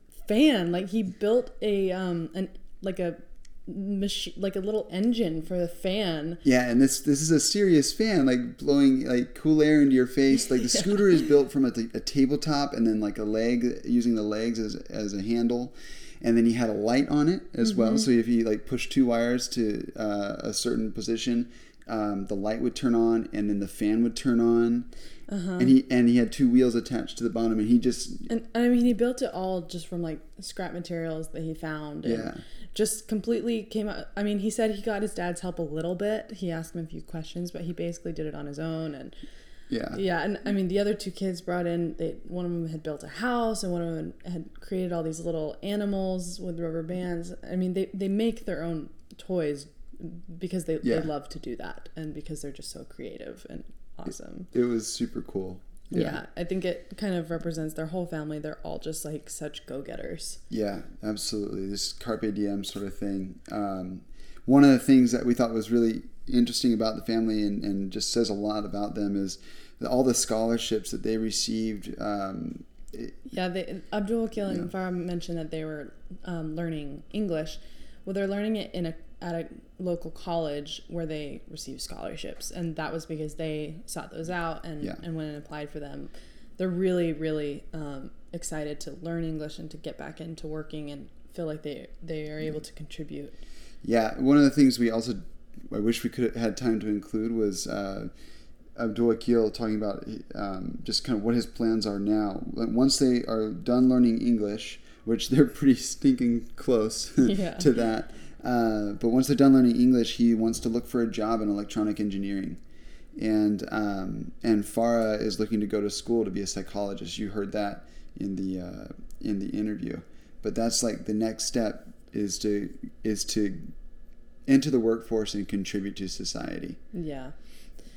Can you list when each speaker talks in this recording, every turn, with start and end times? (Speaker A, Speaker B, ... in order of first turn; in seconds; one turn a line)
Speaker A: 0.2-6.4
Speaker B: 6.4-24.9
Speaker A: 17.6-18.1
Speaker A: 25.3-25.8
Speaker B: 25.6-28.3
Speaker A: 28.3-39.2
Speaker B: 32.0-32.4
Speaker B: 39.7-40.0
Speaker A: 39.9-54.5
Speaker B: 50.8-51.1
Speaker B: 54.5-56.2
Speaker A: 55.9-60.4
Speaker B: 60.5-73.3
Speaker A: 73.3-93.4
Speaker B: 74.4-74.7
Speaker B: 93.8-98.1
Speaker B: 98.8-112.6
Speaker A: 107.2-107.7
Speaker B: 113.2-123.7
Speaker B: 124.5-126.8
Speaker A: 126.9-127.3